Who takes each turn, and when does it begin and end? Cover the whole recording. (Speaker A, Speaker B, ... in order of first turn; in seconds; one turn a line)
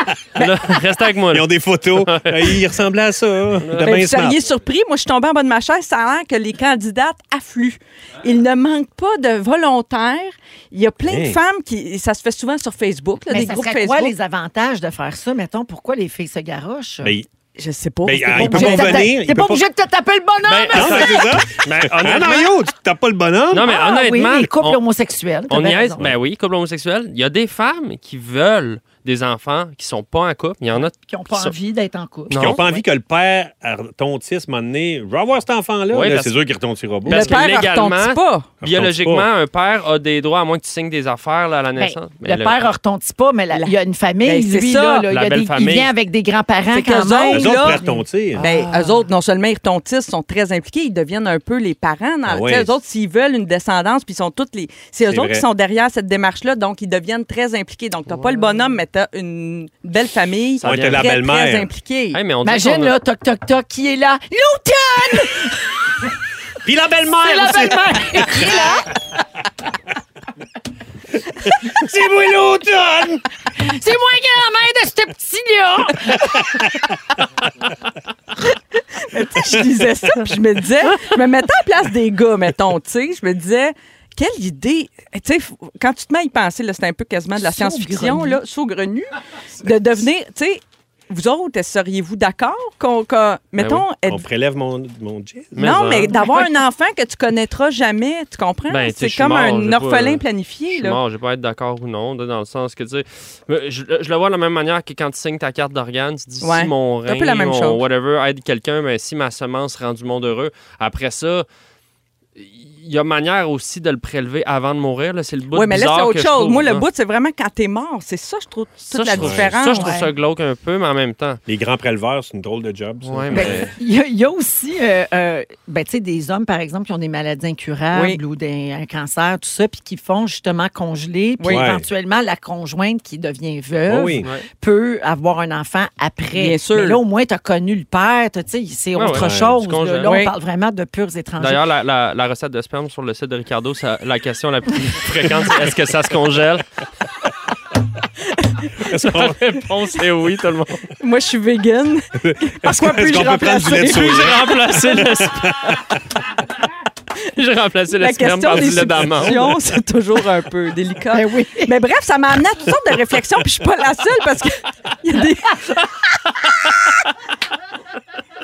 Speaker A: 0.4-2.6
Speaker B: 1.2-4.4
Speaker A: 3.6-3.9
Speaker C: 3.8-14.1
Speaker B: 11.1-11.4
Speaker D: 13.3-17.1
Speaker B: 17.0-17.3
Speaker C: 17.6-19.1
Speaker B: 18.0-19.6
Speaker D: 18.3-21.4
Speaker A: 20.4-22.6
Speaker B: 20.6-23.7
Speaker A: 23.5-24.8
Speaker D: 23.5-26.1
Speaker A: 25.5-31.5
Speaker D: 30.7-32.7
Speaker A: 32.3-32.6
Speaker B: 32.3-37.5
Speaker A: 35.9-36.4
Speaker C: 37.0-38.6
Speaker A: 37.0-42.6
Speaker B: 38.6-39.3
Speaker D: 41.8-49.0
Speaker C: 43.5-45.1
Speaker A: 45.1-45.9
Speaker C: 46.7-62.2
Speaker B: 47.3-48.4
Speaker B: 52.2-52.7
Speaker B: 55.0-55.4
Speaker B: 60.6-61.7
Speaker A: 60.6-61.0
Speaker A: 62.1-63.0
Speaker D: 62.4-65.6
Speaker B: 66.6-68.7
Speaker D: 67.2-68.8
Speaker B: 71.5-73.2
Speaker D: 73.6-76.3
Speaker B: 76.1-76.6
Speaker C: 79.1-89.1
Speaker D: 87.4-88.4
Speaker C: 89.6-94.2
Speaker B: 94.0-95.7
Speaker A: 95.5-96.3
Speaker C: 95.5-101.0
Speaker A: 98.7-111.5
Speaker C: 106.4-107.8
Speaker A: 112.3-116.9
Speaker C: 115.5-120.0
Speaker A: 118.9-121.4
Speaker B: 119.1-119.6
Speaker D: 119.7-120.1
Speaker B: 121.5-123.7
Speaker A: 123.0-123.7
Speaker D: 123.3-141.7
Speaker C: 127.9-128.2
Speaker C: 131.4-131.6
Speaker B: 131.5-131.8
Speaker B: 133.9-134.3
Speaker C: 136.3-137.0
Speaker A: 138.9-140.1
Speaker B: 139.1-139.6
Speaker C: 140.0-140.3
Speaker A: 141.4-146.6
Speaker B: 148.8-149.5
Speaker A: 148.9-150.8
Speaker C: 151.0-154.7
Speaker B: 152.2-155.8
Speaker A: 153.9-155.5
Speaker A: 157.3-159.5
Speaker C: 157.9-165.5
Speaker D: 161.1-161.7